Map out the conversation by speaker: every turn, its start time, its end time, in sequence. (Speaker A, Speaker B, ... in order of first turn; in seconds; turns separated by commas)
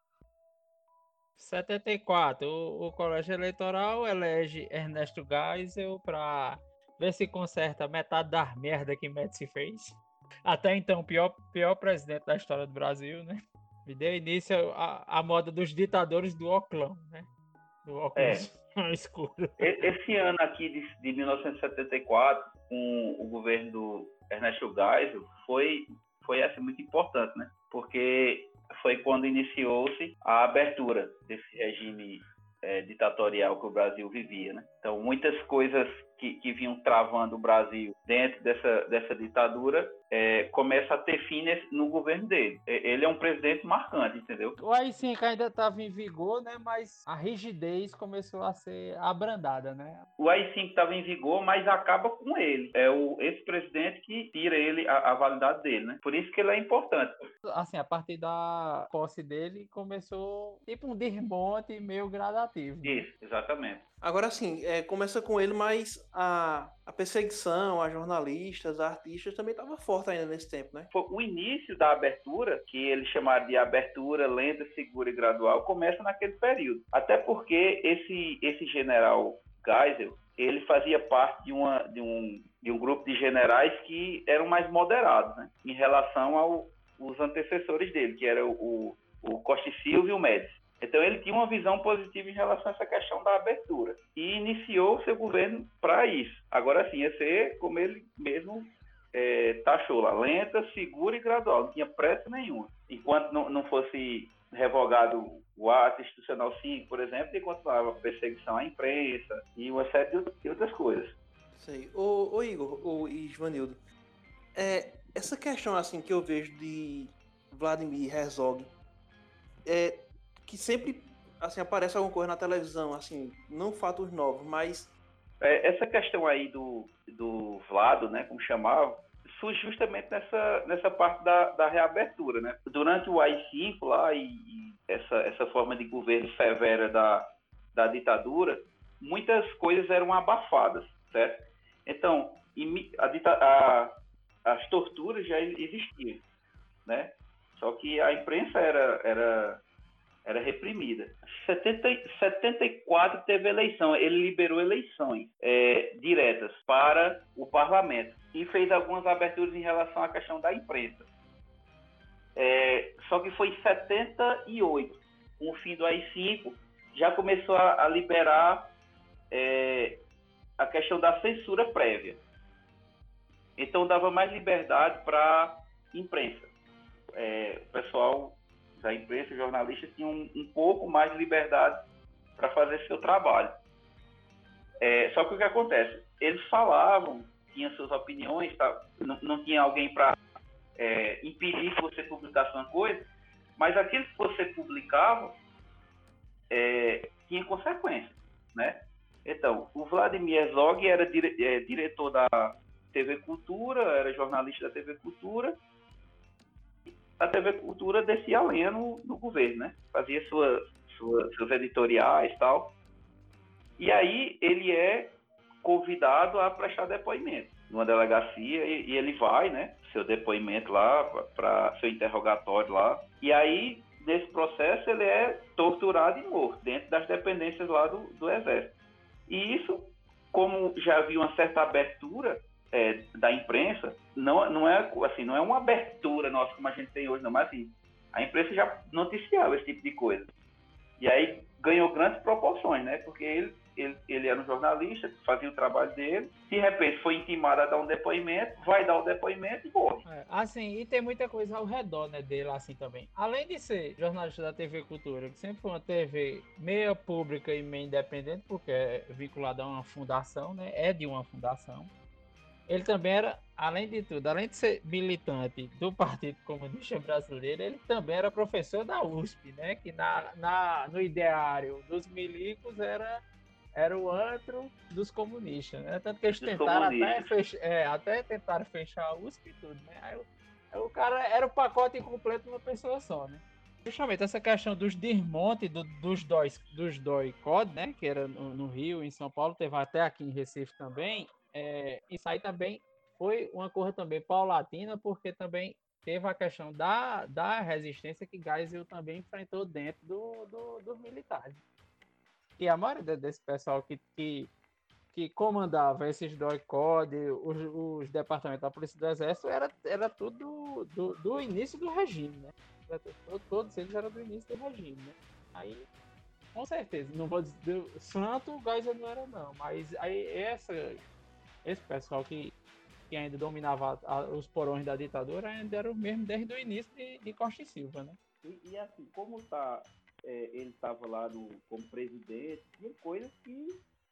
Speaker A: 1.4-17.3, Speaker A: 17.9-19.9, Speaker B: 18.2-18.5, Speaker B: 19.6-44.6, Speaker A: 44.6-50.1, Speaker B: 50.2-57.2, Speaker A: 57.4-63.1, Speaker B: 62.8-63.9, Speaker C: 64.0-70.9, Speaker B: 70.9-111.2, Speaker C: 111.5-113.8, Speaker C: 114.5-118.7, Speaker C: 119.7-124.9, Speaker B: 125.4-143.9, Speaker B: 144.4-146.2, Speaker B: 146.9-149.6, Speaker B: 150.2-161.1, Speaker B: 162.4-168.7, Speaker B: 169.3-170.0, Speaker B: 170.6-172.2, Speaker B: 173.6-176.5, Speaker B: 177.1-181.8, Speaker B: 182.4-183.6, Speaker B: 184.8-190.2, Speaker B: 190.8-195.4, Speaker B: 196.5-205.6, Speaker B: 207.2-212.8, Speaker B: 213.8-228.8, Speaker B: 229.3-240.3, Speaker B: 241.0-250.1, Speaker A: 250.1-261.9, Speaker A: 262.7-273.2, Speaker A: 273.8-301.6, Speaker B: 276.4-277.3, Speaker A: 302.6-304.5, Speaker A: 305.1-315.9, Speaker A: 316.6-321.0, Speaker A: 321.6-322.6, Speaker A: 323.1-328.2, Speaker B: 328.4-333.8